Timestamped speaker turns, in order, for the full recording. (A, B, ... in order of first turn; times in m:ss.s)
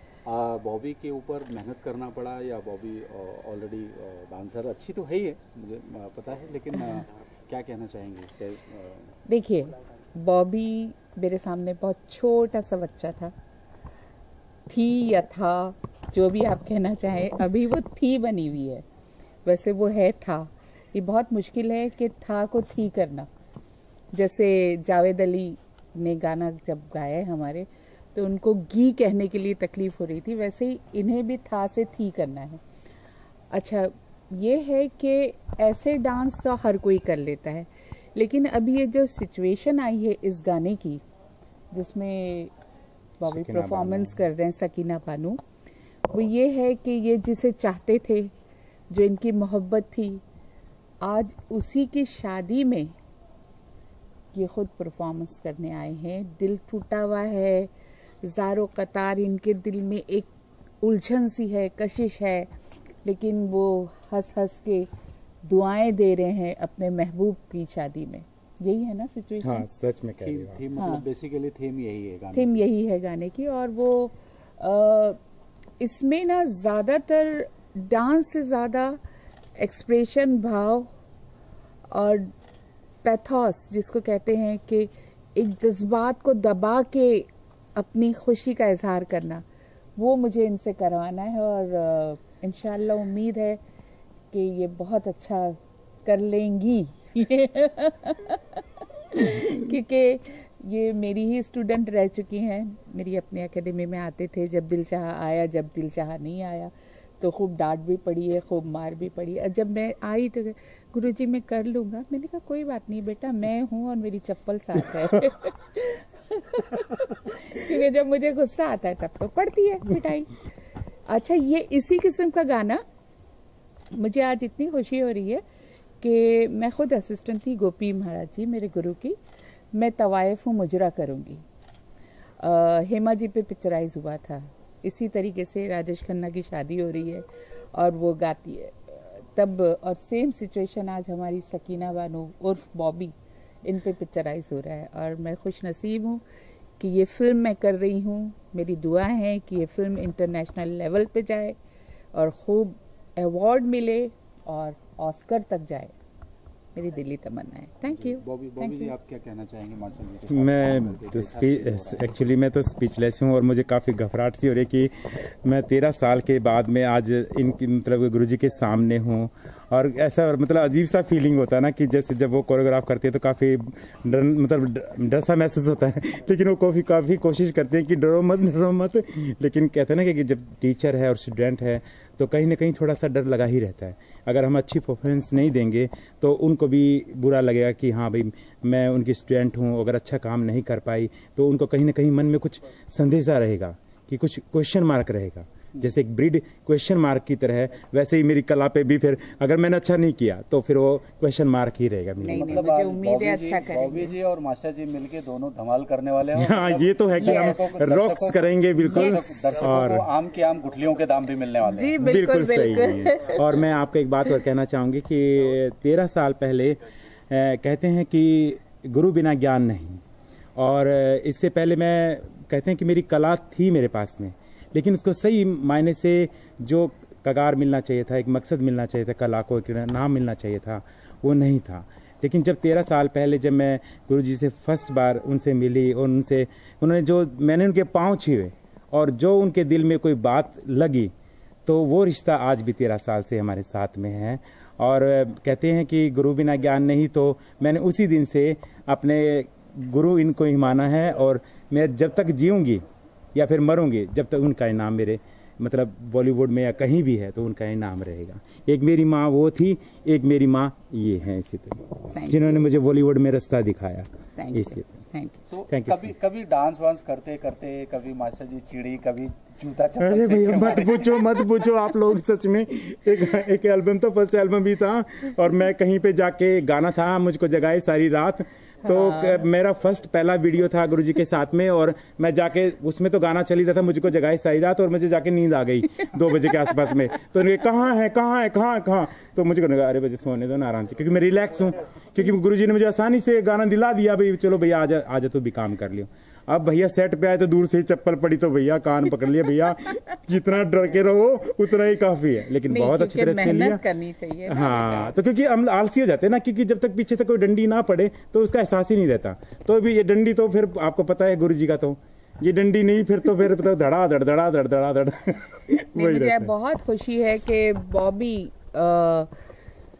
0:00.2-0:09.2 A
0:09.3-0:13.3 B
0:14.7-0:18.8 B
0:19.4-0:23.3 B
0:24.1-0:32.6 B
0:33.5-0:41.0 B
0:41.7-0:42.5 B
0:43.2-0:45.4 B
0:43.2-0:44.3 C
0:46.1-0:48.3 B
0:48.9-0:50.2 B
0:51.0-0:52.9 B
0:54.3-0:57.7 B
0:58.2-1:00.3 B
1:00.8-1:02.5 B
1:03.0-1:04.9 B
1:05.4-1:09.7 B
1:09.4-1:10.6 C
1:10.2-1:12.6 A
1:10.8-1:11.0 B
1:12.3-1:15.2 B
1:15.8-1:19.0 B
1:19.6-1:20.9 B
1:21.9-1:22.3 B
1:23.0-1:29.4 B
1:30.0-1:33.6 B
1:34.3-2:00.5 B
2:01.1-2:02.8 B
2:03.9-2:05.4 B
2:06.0-2:09.2 B
2:09.7-2:11.4 B
2:12.4-2:26.2 B
2:26.8-2:31.6 B
2:32.1-2:35.9 B
2:36.7-2:38.9 B
2:37.9-2:42.1 A
2:40.3-3:22.6 C
3:22.2-3:24.1 B
3:22.2-3:32.0 A
3:26.4-3:30.0 C
3:27.2-3:27.6 B
3:28.9-3:29.2 B
3:31.6-3:33.5 B
3:32.0-3:40.0 C
3:40.6-4:01.1 C
4:01.6-4:25.0 C
4:22.1-4:22.6 B
4:24.4-4:25.4 B
4:25.5-4:31.2 A
4:25.7-4:26.1 C
4:30.0-5:03.8 C
4:38.8-4:39.4 B
5:02.7-5:05.1 B
5:04.5-5:16.5 C
5:15.9-5:19.3 B